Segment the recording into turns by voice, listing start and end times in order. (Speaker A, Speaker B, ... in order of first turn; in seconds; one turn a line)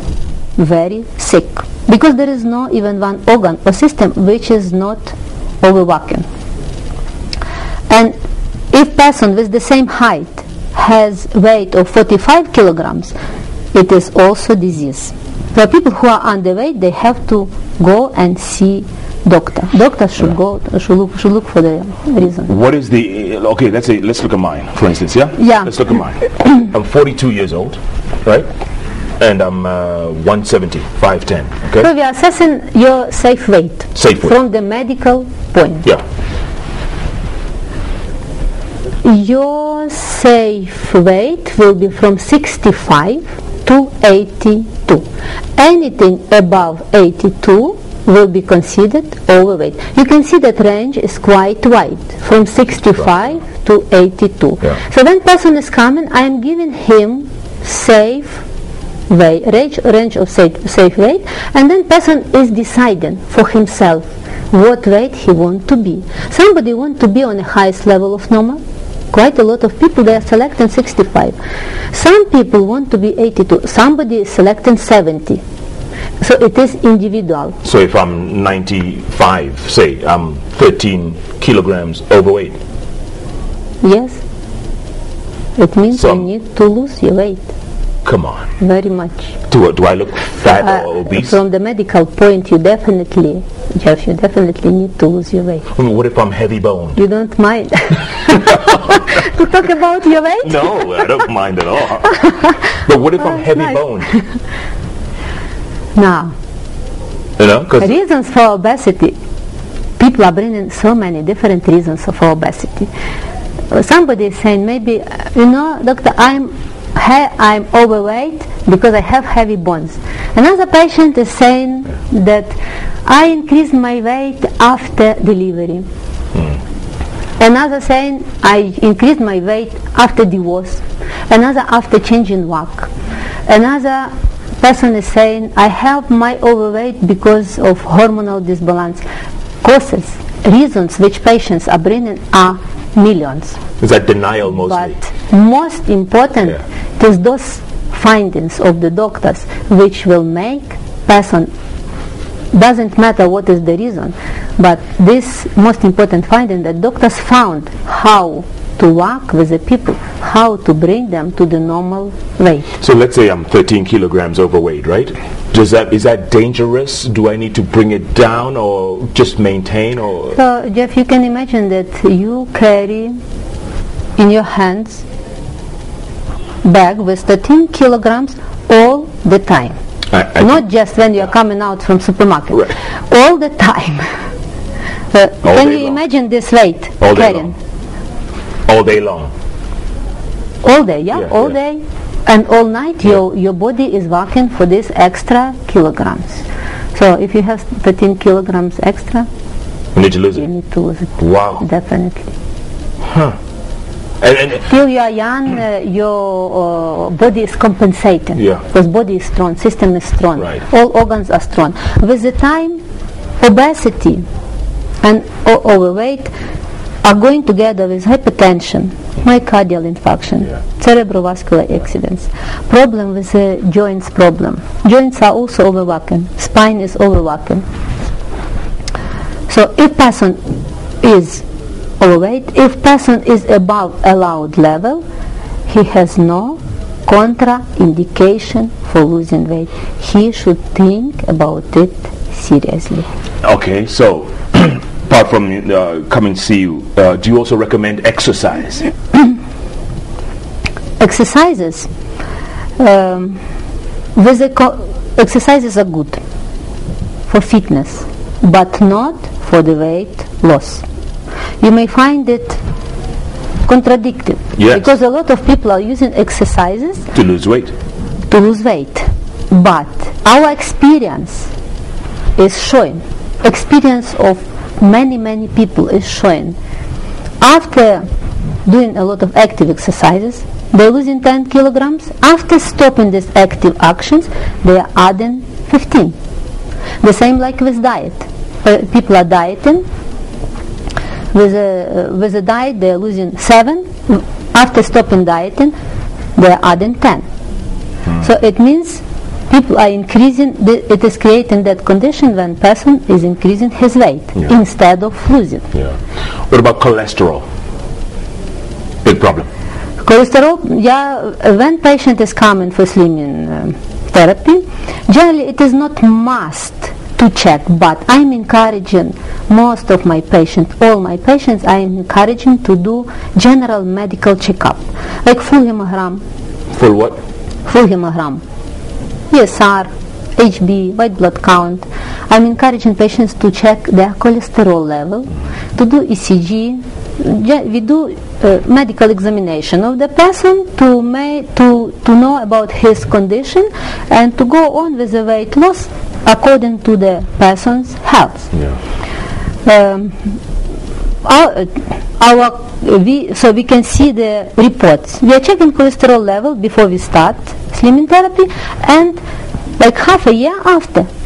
Speaker A: 0.6-6.3
Speaker A: 7.9-8.2
Speaker A: 8.7-13.1
Speaker A: 13.7-22.5
Speaker B: 22.5-28.5
Speaker A: 25.4-25.7
Speaker B: 29.2-31.9
Speaker A: 31.8-35.9
Speaker B: 34.0-34.4
Speaker A: 39.0-45.0
Speaker A: 45.6-58.5
Speaker A: 59.1-68.6
Speaker A: 69.1-71.4
Speaker A: 71.9-75.4
Speaker A: 76.2-77.6
Speaker B: 77.6-82.6
Speaker A: 83.8-84.2
Speaker A: 85.6-87.5
Speaker B: 85.9-86.3
Speaker B: 88.0-88.5
Speaker A: 88.6-89.4
Speaker B: 89.5-91.4
Speaker A: 90.5-95.7
Speaker B: 95.7-97.0
Speaker A: 97.0-100.8
Speaker B: 98.3-98.6
Speaker B: 100.4-104.1
Speaker A: 103.3-104.1
Speaker A: 106.0-106.3
Speaker B: 107.4-107.9
Speaker A: 107.8-109.2
Speaker A: 110.0-112.9
Speaker A: 113.7-122.5
Speaker A: 123.1-125.9
Speaker A: 127.4-132.9
Speaker A: 133.5-139.0
Speaker A: 139.6-143.6
Speaker B: 143.8-145.0
Speaker A: 144.7-151.5
Speaker A: 152.5-162.7
Speaker B: 162.8-170.4
Speaker A: 170.3-173.2
Speaker A: 174.2-175.1
Speaker A: 176.6-179.8
Speaker B: 180.1-180.6
Speaker A: 180.4-184.1
Speaker A: 185.1-187.6
Speaker B: 185.4-186.0
Speaker B: 187.0-187.5
Speaker B: 188.7-189.3
Speaker A: 190.6-199.3
Speaker B: 191.2-191.5
Speaker B: 199.9-200.5
Speaker A: 200.4-202.3
Speaker B: 201.2-201.6
Speaker B: 203.1-203.4
Speaker B: 204.2-204.7
Speaker A: 204.7-212.8
Speaker B: 208.4-208.6
Speaker A: 213.4-214.2
Speaker A: 215.0-216.3
Speaker A: 217.0-227.6
Speaker A: 229.5-230.4
Speaker A: 231.0-231.4
Speaker A: 232.0-235.0
Speaker A: 235.7-243.1
Speaker B: 243.4-248.9
Speaker A: 251.0-251.9
Speaker A: 252.8-253.4
Speaker A: 254.2-256.2
Speaker A: 257.3-260.9
Speaker A: 261.6-262.6
Speaker A: 263.7-267.1
Speaker B: 264.6-264.9
Speaker B: 267.1-267.8
Speaker A: 268.3-271.5
Speaker A: 272.4-276.6
Speaker A: 277.4-278.1
Speaker A: 278.6-286.2
Speaker A: 287.0-289.8
Speaker A: 291.3-295.7
Speaker A: 296.4-297.2
Speaker A: 298.1-305.7
Speaker B: 306.5-307.4
Speaker B: 309.0-309.5
Speaker A: 310.0-326.2
Speaker B: 326.7-327.2
Speaker A: 327.7-328.4
Speaker A: 329.3-348.5
Speaker A: 349.6-350.4
Speaker A: 351.2-359.2
Speaker A: 359.8-361.1